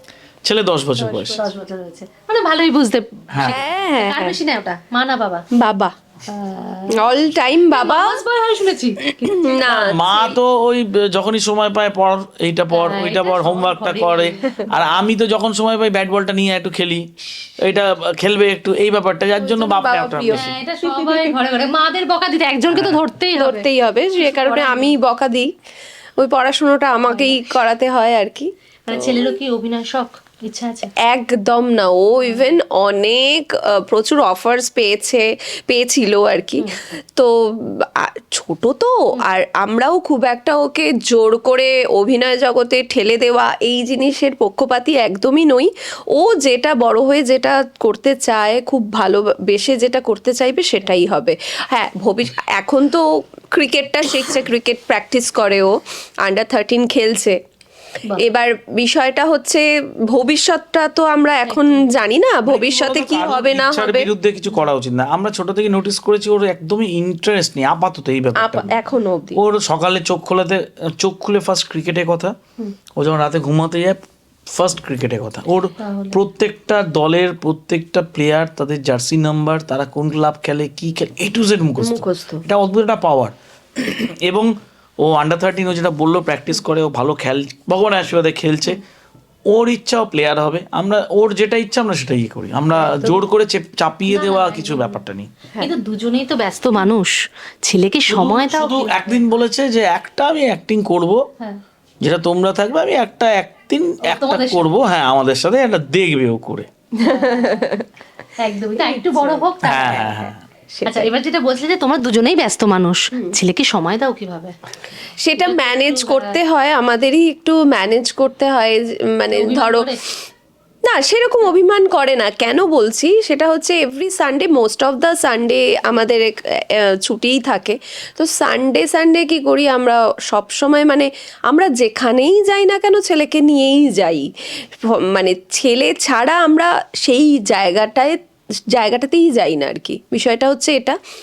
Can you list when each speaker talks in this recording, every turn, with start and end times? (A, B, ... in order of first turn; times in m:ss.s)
0:00.4-0:01.4 A
0:01.0-0:01.4 B
0:01.3-0:05.5 C
0:03.3-0:03.6 A
0:03.4-0:04.4 B
0:05.6-0:05.9 B
0:06.3-0:07.1 C
0:06.9-0:08.2 B
0:07.7-0:10.3 C
0:09.2-0:10.2 B
0:09.7-0:17.1 A
0:12.7-0:14.6 C
0:17.6-0:20.5 A
0:19.4-0:21.4 B
0:20.3-0:23.7 C
0:22.7-0:23.0 A
0:23.4-0:25.5 B
0:24.2-0:25.0 C
0:26.2-0:29.4 B
0:27.0-0:27.4 C
0:28.9-0:30.9 C
0:31.0-0:57.4 B
0:32.2-0:32.5 C
0:58.2-1:04.1 B
1:01.5-1:01.9 C
1:02.5-1:08.7 A
1:08.4-1:09.4 B
1:09.4-1:12.4 A
1:13.0-1:14.0 A
1:14.5-1:24.5 A
1:15.8-1:16.2 C
1:21.8-1:22.4 B
1:25.0-1:28.8 A
1:29.5-1:35.3 A
1:34.1-1:35.0 C
1:35.6-1:39.2 C
1:38.1-1:41.3 A
1:42.0-1:46.7 A
1:44.0-1:44.7 C
1:47.0-1:47.9 B
1:47.0-1:47.6 C
1:48.4-1:50.1 C
1:48.8-1:51.1 B
1:49.6-1:50.4 A
1:50.9-1:54.5 C
1:55.2-1:59.9 B
1:55.4-1:56.4 C
1:59.3-2:00.0 C
2:00.8-2:14.3 B
2:14.8-2:18.2 B
2:18.7-2:21.0 B